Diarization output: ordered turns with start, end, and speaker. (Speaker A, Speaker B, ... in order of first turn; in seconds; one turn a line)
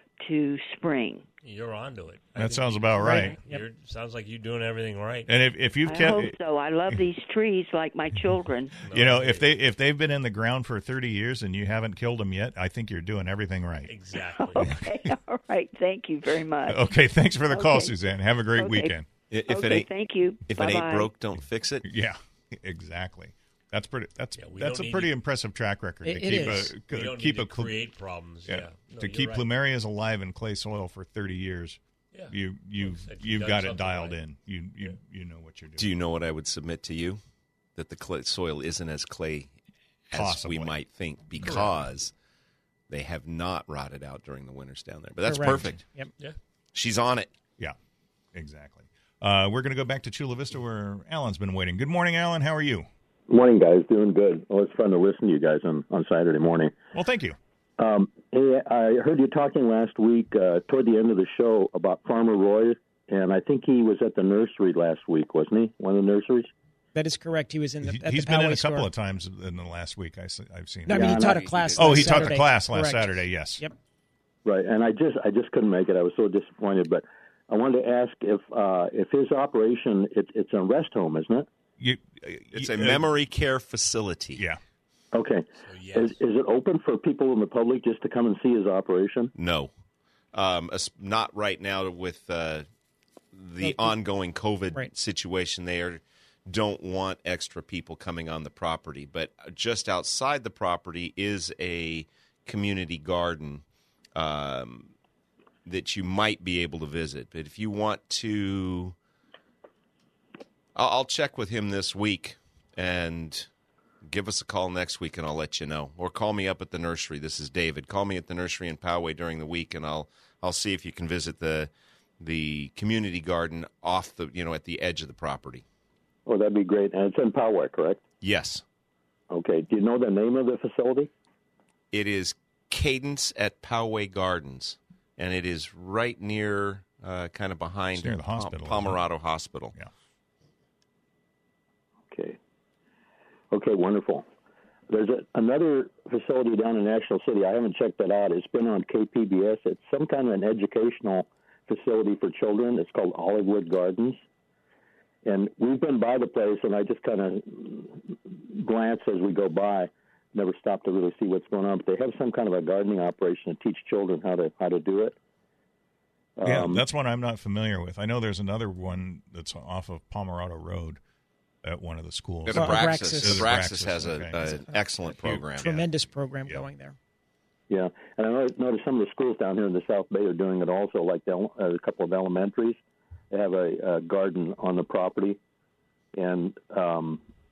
Speaker A: 0.2-1.3
Speaker B: 1.4-5.3
Speaker C: 2.4-3.4
Speaker D: 3.0-3.6
Speaker C: 5.3-6.4
Speaker A: 5.8-8.8
Speaker B: 8.8-9.5
Speaker C: 8.9-13.9
Speaker B: 13.9-14.7
Speaker A: 14.4-16.9
Speaker C: 14.6-15.2
Speaker C: 16.7-19.1
Speaker A: 17.5-17.9
Speaker A: 18.5-19.0
Speaker E: 19.3-19.9
Speaker A: 19.5-21.1
Speaker E: 20.5-21.9
Speaker C: 21.8-27.8
Speaker B: 24.4-25.2
Speaker D: 26.0-26.7
Speaker B: 26.3-29.5
Speaker C: 28.5-35.9
Speaker B: 32.1-34.2
Speaker E: 35.8-37.2
Speaker E: 37.8-39.5
Speaker E: 40.1-42.1
Speaker C: 40.1-40.8
Speaker B: 41.4-41.7
Speaker E: 42.9-45.8
Speaker D: 45.3-46.1
Speaker E: 46.7-47.3
Speaker C: 48.3-52.9
Speaker F: 53.3-56.7
Speaker C: 56.9-57.4
Speaker F: 57.8-66.5
Speaker D: 67.0-68.9
Speaker C: 67.8-73.6
Speaker D: 70.9-73.8
Speaker F: 70.9-71.4
Speaker E: 71.2-72.4
Speaker F: 74.5-81.5
Speaker C: 81.8-83.1
Speaker E: 82.5-84.4
Speaker F: 85.1-89.3
Speaker B: 85.6-86.2
Speaker E: 89.3-89.7
Speaker E: 90.3-92.7
Speaker E: 93.3-103.6
Speaker D: 93.6-94.0
Speaker E: 104.2-104.9
Speaker E: 105.7-109.0
Speaker E: 110.8-113.5
Speaker E: 114.0-125.7
Speaker F: 126.3-128.0
Speaker E: 128.2-128.6
Speaker F: 129.3-131.1
Speaker E: 131.9-139.8
Speaker C: 137.9-139.0
Speaker F: 142.1-142.4
Speaker F: 143.5-144.3
Speaker F: 144.9-154.2
Speaker F: 155.2-165.2
Speaker F: 166.4-166.8
Speaker C: 166.4-171.0
Speaker C: 171.6-175.9
Speaker E: 172.5-175.8
Speaker D: 172.5-173.6
Speaker D: 175.6-177.0
Speaker F: 177.7-182.8
Speaker F: 183.3-185.4
Speaker F: 186.1-187.2